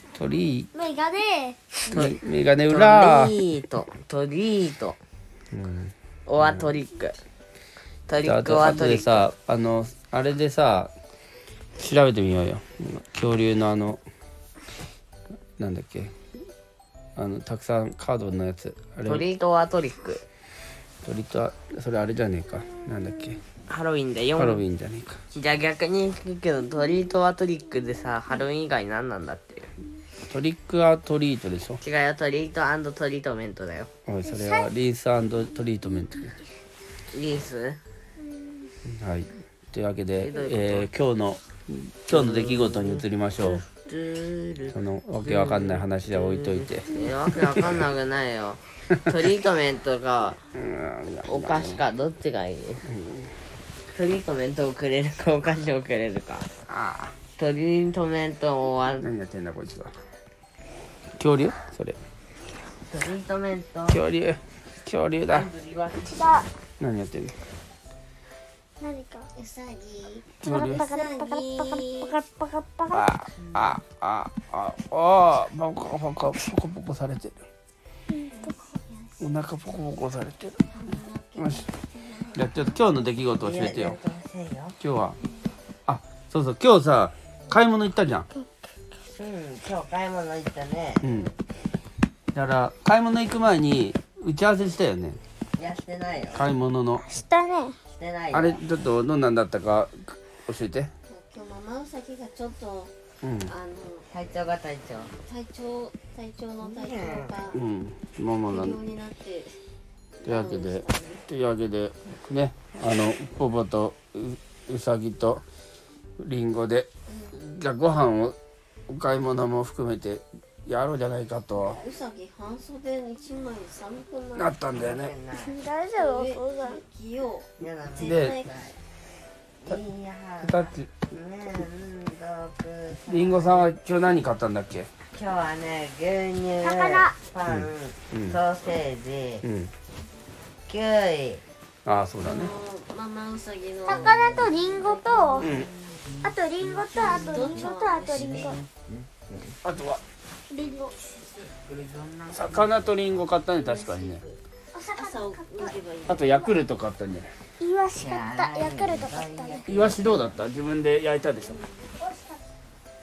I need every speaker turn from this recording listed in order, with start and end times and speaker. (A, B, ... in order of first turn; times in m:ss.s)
0:00.2-0:00.7 A
0:00.7-0:01.6 B
0:01.9-0:02.2 C
0:01.9-0:03.4 A
0:02.7-0:05.0 C
0:05.5-0:06.7 A
0:06.3-0:07.2 C
0:08.1-0:09.3 C
0:08.2-0:10.9 A
0:11.8-0:14.0 A
0:15.6-0:16.1 A
0:17.2-0:19.3 A
0:19.0-0:20.2 C
0:21.0-0:23.4 A
0:23.7-0:24.6 C
0:24.4-0:25.2 A
0:25.3-0:29.7 C
0:30.3-0:31.8 A
0:31.8-0:33.9 C
0:34.1-0:36.4 A
0:34.2-0:34.7 B
0:37.1-0:37.8 C
0:38.9-0:43.6 A
0:40.2-0:40.9 C
0:42.1-0:50.4 C
0:44.7-0:47.7 A
0:50.6-0:51.8 A
0:51.3-0:52.8 C
0:52.9-0:53.3 A
0:53.9-0:56.5 C
0:56.7-0:57.1 A
0:57.4-0:59.1 C
0:59.0-0:59.9 A
1:01.2-1:02.0 A
1:02.9-1:04.0 C
1:03.9-1:05.5 A
1:05.3-1:06.5 C
1:06.1-1:06.5 B
1:06.8-1:07.3 A
1:08.8-1:09.3 B
1:09.4-1:12.2 D
1:10.4-1:10.9 A
1:10.4-1:13.0 B
1:12.9-1:17.4 A
1:18.1-1:18.6 B
1:18.4-1:18.8 D
1:19.2-1:20.6 A
1:20.8-1:22.5 D
1:21.4-1:21.7 A
1:22.3-1:24.0 A
1:23.4-1:24.8 C
1:24.8-1:25.2 A
1:25.9-1:28.3 A
1:29.1-1:31.2 C
1:31.0-1:31.3 A
1:32.3-1:35.2 A
1:35.6-1:36.5 C
1:36.3-1:37.1 A
1:37.1-1:37.8 B
1:37.9-1:38.6 C
1:38.3-1:40.9 A
1:41.1-1:42.9 D
1:43.2-1:43.5 A
1:43.4-1:44.1 D
1:44.1-1:45.1 C
1:45.2-1:47.6 D
1:46.6-1:47.4 C
1:47.5-1:48.8 A
1:48.5-1:49.6 D
1:50.2-1:51.2 D
1:50.2-1:55.4 A
1:56.2-1:58.4 A
1:57.1-1:57.4 D
1:58.9-2:01.8 A
2:01.6-2:04.5 D
2:04.4-2:05.1 A
2:04.7-2:05.6 C
2:05.4-2:06.8 B
2:05.9-2:08.8 D
2:07.6-2:08.4 C
2:08.0-2:08.4 A
2:09.6-2:13.7 C
2:10.4-2:10.9 A
2:13.1-2:14.9 A
2:15.1-2:19.4 C
2:16.6-2:17.2 B
2:17.5-2:18.4 A
2:19.4-2:19.7 A
2:20.7-2:21.4 C
2:21.8-2:22.5 A
2:22.2-2:25.5 D
2:23.9-2:25.5 B
2:23.9-2:24.6 C
2:25.3-2:25.6 C
2:25.4-2:25.7 A
2:26.2-2:28.6 B
2:26.6-2:28.6 D
2:27.0-2:29.4 C
2:29.6-2:30.0 A
2:30.5-2:31.0 B
2:31.6-2:33.0 C
2:32.3-2:34.2 A
2:34.7-2:35.8 B
2:34.9-2:36.2 D
2:36.1-2:37.3 A
2:37.6-2:39.9 B
2:38.0-2:40.4 C
2:39.7-2:41.6 A
2:42.0-2:42.4 B